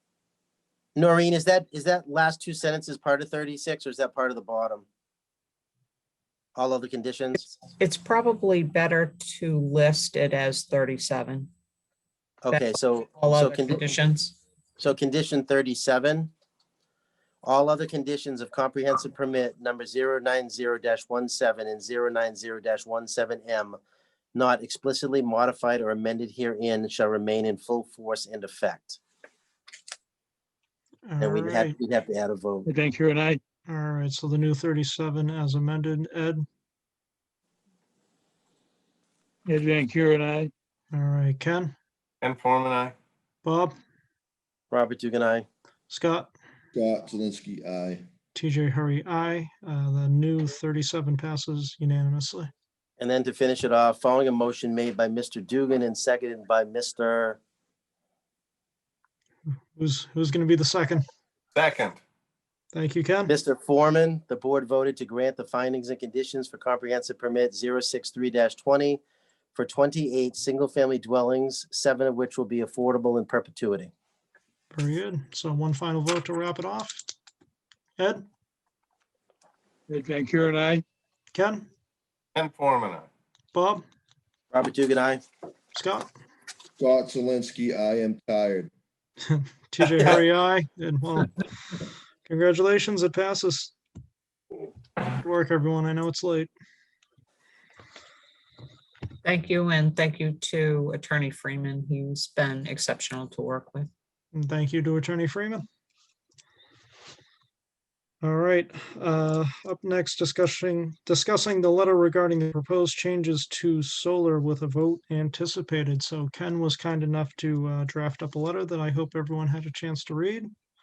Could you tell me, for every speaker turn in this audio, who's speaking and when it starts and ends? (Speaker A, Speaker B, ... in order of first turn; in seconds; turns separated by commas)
Speaker A: 0.9-4.8, Speaker A: 6.5-7.5, Speaker B: 7.8-11.5, Speaker A: 12.4-13.9, Speaker B: 12.5-14.4, Speaker A: 14.8-16.3, Speaker A: 17.4-23.8, Speaker A: 24.3-29.0, Speaker C: 31.1-31.8, Speaker A: 31.2-32.7, Speaker D: 32.6-33.4, Speaker C: 33.7-36.5, Speaker D: 39.5-40.5, Speaker C: 40.9-41.7, Speaker E: 42.2-42.9, Speaker C: 43.4-43.7, Speaker A: 44.7-45.5, Speaker C: 45.9-46.3, Speaker F: 46.7-48.0, Speaker C: 48.3-52.5, Speaker A: 53.0-57.4, Speaker C: 59.7-61.0, Speaker E: 61.5-62.0, Speaker C: 62.7-63.3, Speaker A: 63.3-69.0, Speaker A: 69.5-73.9, Speaker C: 74.7-77.0, Speaker C: 78.0-78.2, Speaker D: 79.9-80.8, Speaker C: 81.3-81.7, Speaker E: 82.3-83.1, Speaker C: 83.5-83.8, Speaker A: 84.5-85.2, Speaker C: 85.7-86.1, Speaker F: 86.8-88.7, Speaker C: 89.3-91.4, Speaker C: 92.3-93.7, Speaker C: 95.1-96.5, Speaker B: 99.2-103.9, Speaker C: 104.3-105.6, Speaker C: 108.2-120.5